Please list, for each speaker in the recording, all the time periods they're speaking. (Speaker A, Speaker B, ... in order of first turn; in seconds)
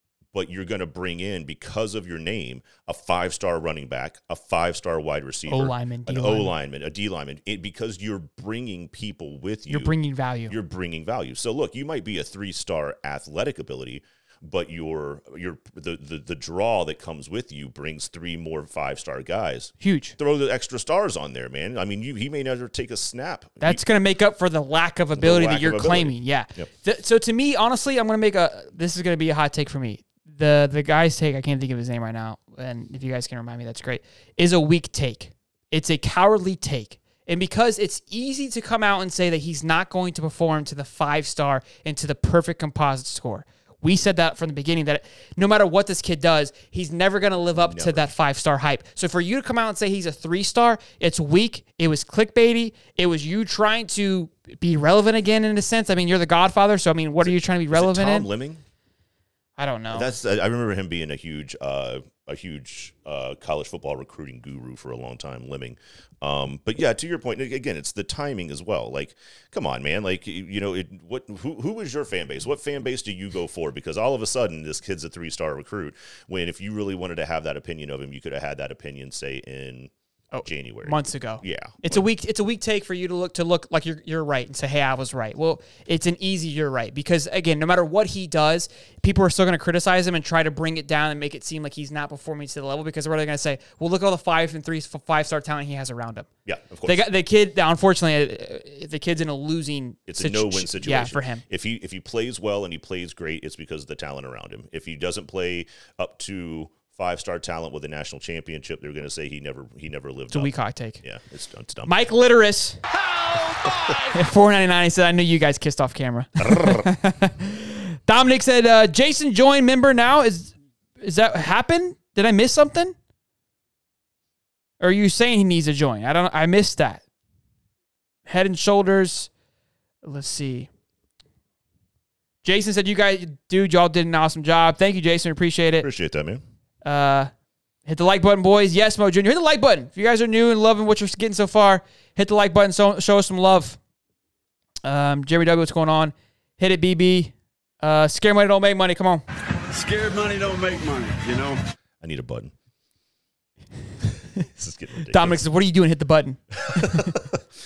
Speaker A: 0.3-9.9, 10.5-23.8, 25.2-26.7, 47.6-48.1, 57.2-58.6, 59.9-79.9, 80.4-82.0, 96.5-97.0, 100.1-110.5, 111.0-111.9, 116.4-116.9, 135.8-136.4, 152.0-152.5, 154.4-155.4, 156.6-157.4
Speaker B: 5.5-6.5, 9.7-10.5, 19.8-20.2, 23.6-58.3, 59.6-60.1, 80.3-96.3, 96.9-101.4, 110.3-111.0, 111.9-112.8, 114.1-123.0, 124.8-127.0, 128.3-129.3, 130.0-130.7, 132.4-135.9, 136.8-137.3, 137.9-143.8, 144.8-149.2, 155.1-157.2
Speaker C: 149.6-151.6